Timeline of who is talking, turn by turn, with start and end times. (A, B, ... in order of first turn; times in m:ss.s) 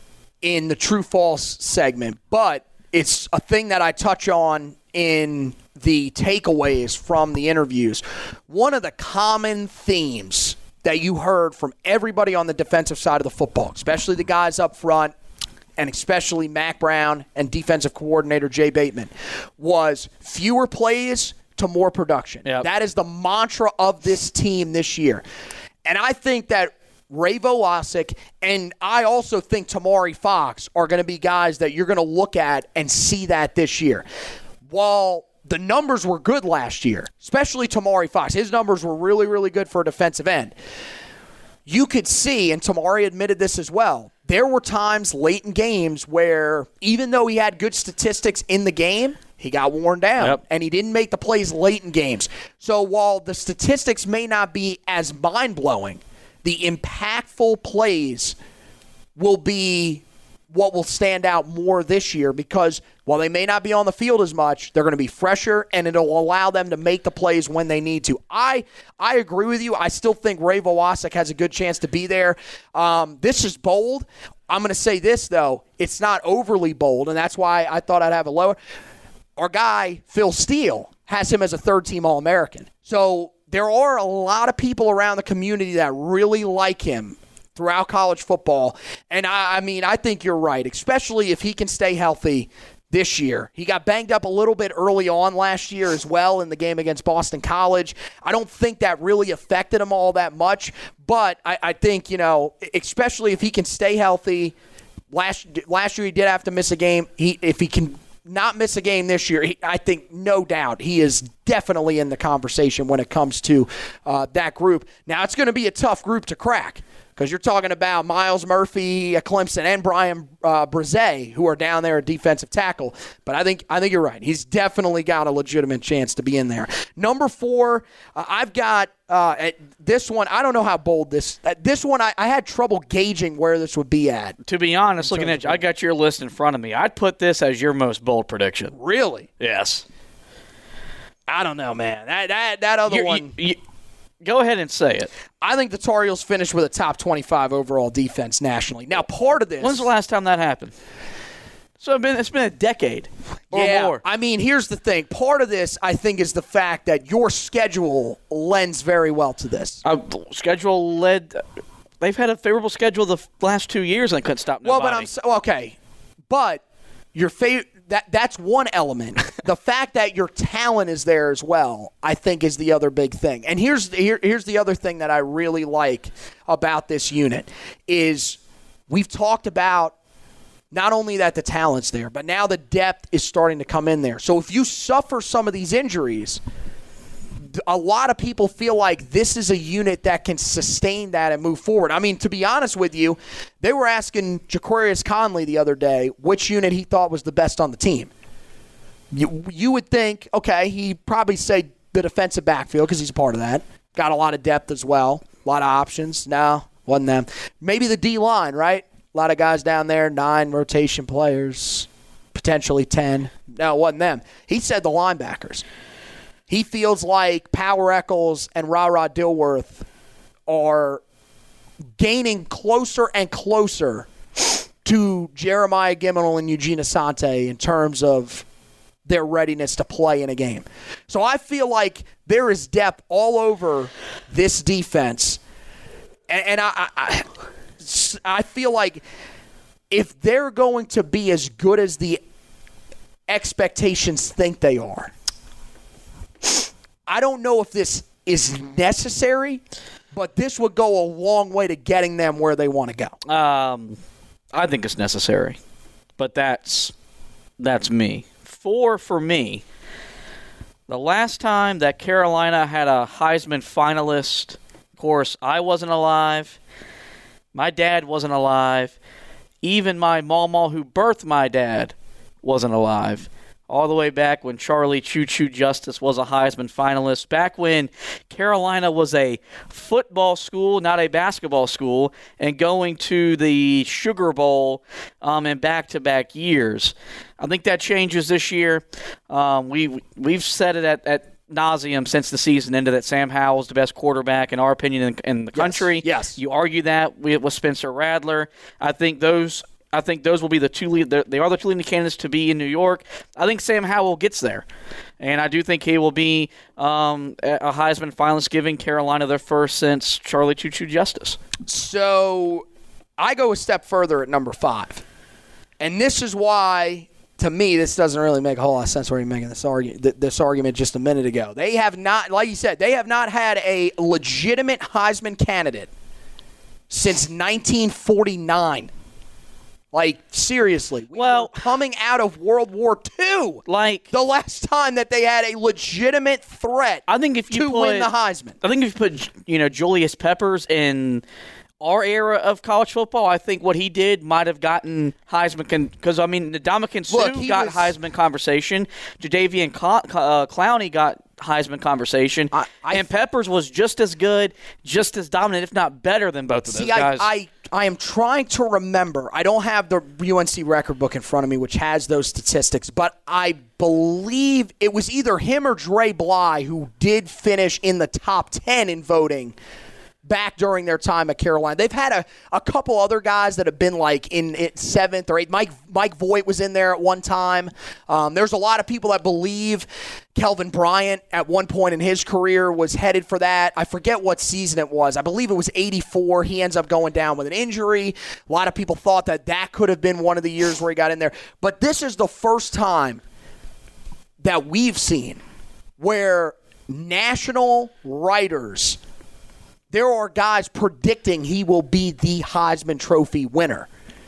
0:00.4-0:15.1 A
0:15.8-0:25.2 A
0:25.8-0:34.1 A
0:34.7-0:40.6 A
0:41.7-0:58.4 A
0:59.2-1:18.6 A
1:19.4-1:44.6 A
1:45.1-2:14.4 A
2:14.5-2:18.7 B
2:15.0-2:15.6 A
2:18.7-2:19.3 A
2:19.4-2:19.8 B
2:21.3-2:23.3 A
2:22.9-2:23.6 B
2:24.2-2:25.1 B
2:25.4-2:29.9 A
2:29.6-2:30.7 B
2:31.8-2:34.0 B
2:33.5-2:39.8 A
2:39.8-2:41.4 B
2:42.0-2:45.1 B
2:44.6-2:45.8 A
2:46.3-2:46.6 A
2:47.2-2:59.9 A
3:00.7-3:06.4 A
3:07.5-3:18.1 A
3:19.1-3:35.6 A
3:36.5-3:39.9 A
3:40.5-3:41.0 A
3:42.0-3:44.1 A
3:44.8-3:48.4 A
3:49.1-3:55.4 A
3:56.3-3:57.3 A
3:57.8-3:59.0 A
3:59.9-4:02.2 A
4:03.3-4:05.1 A
4:07.1-4:09.6 A
4:10.1-4:13.2 A
4:13.3-4:14.0 B
4:14.5-4:15.6 B
4:16.2-4:16.9 B
4:17.6-4:19.6 B
4:20.9-4:26.6 B
4:27.5-4:29.0 B
4:29.6-5:04.6 B
4:55.5-4:56.4 A
5:05.2-5:11.4 B
5:11.7-5:12.6 A
5:13.2-5:15.0 A
5:15.8-5:25.9 A
5:26.9-5:28.9 A
5:29.9-5:38.6 A
5:31.2-5:31.5 B
5:33.7-5:34.0 B
5:37.1-5:38.1 B
5:38.6-5:41.2 B
5:41.8-5:57.3 B
5:47.1-5:48.0 A
5:52.5-5:53.1 A
5:56.7-6:09.6 A
6:10.2-6:33.2 A
6:34.4-6:35.4 A
6:36.0-6:39.0 A
6:39.9-6:43.9 A